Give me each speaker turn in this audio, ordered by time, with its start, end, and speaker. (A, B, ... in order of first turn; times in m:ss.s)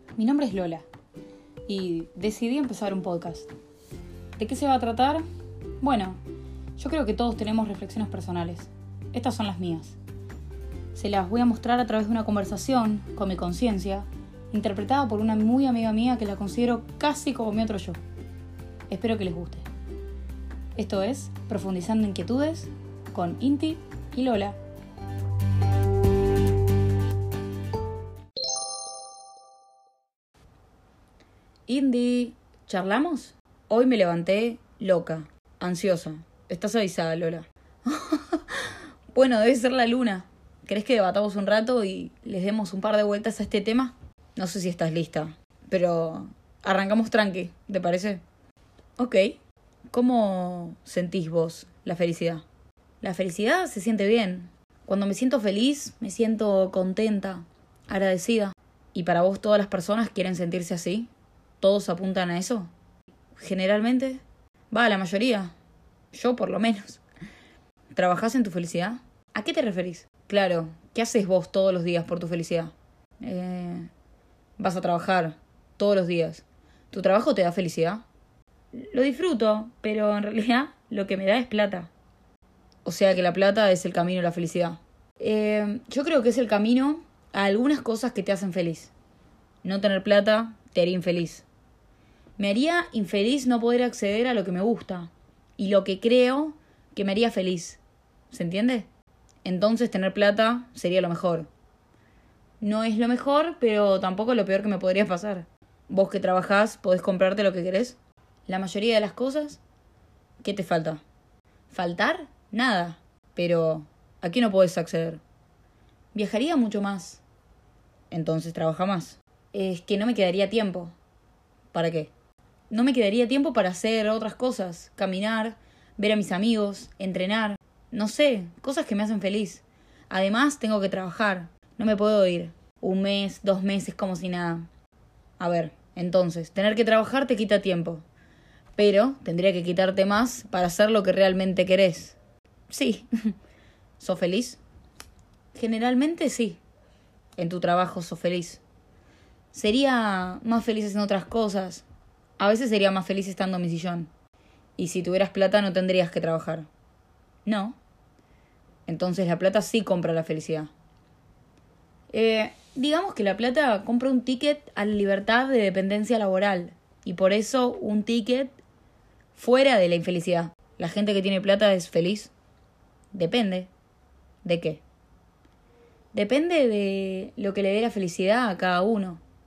0:00.2-0:00.9 A
0:01.7-0:03.5 A
0:04.4-0:05.2 A
0:05.8-0:06.2 A
0:06.8-0:10.0 A
0:10.9-0:18.0 A
0:18.9-0:19.7 A
0:20.8-0:24.6 A
0:31.7-0:48.2 A
0:49.0-0:49.4 A
0:49.9-0:52.4 A
0:53.0-1:02.7 A
1:03.3-1:05.5 A
1:06.1-1:07.0 A
1:07.9-1:13.9 A
1:14.6-1:18.0 A
1:18.7-1:21.9 A
1:22.8-1:28.9 A
1:29.6-1:31.5 A
1:32.4-1:38.9 A
1:39.4-1:41.5 A
1:42.6-1:49.6 A
1:50.4-1:51.0 A
1:51.7-1:55.2 A
1:56.1-1:57.2 A
1:58.1-2:00.9 A
2:01.7-2:02.1 A
2:02.7-2:14.7 A
2:15.4-2:18.0 A
2:18.8-2:22.2 A
2:22.7-2:23.3 A
2:24.0-2:24.6 A
2:25.5-2:26.6 A
2:27.4-2:28.6 A
2:29.5-2:31.8 A
2:32.4-2:34.1 A
2:34.8-2:36.7 A
2:37.4-2:37.8 A
2:38.9-2:40.7 A
2:42.1-2:48.6 A
2:49.3-2:52.3 A
2:53.1-2:53.7 A
2:54.4-2:54.8 A
2:56.1-2:59.2 A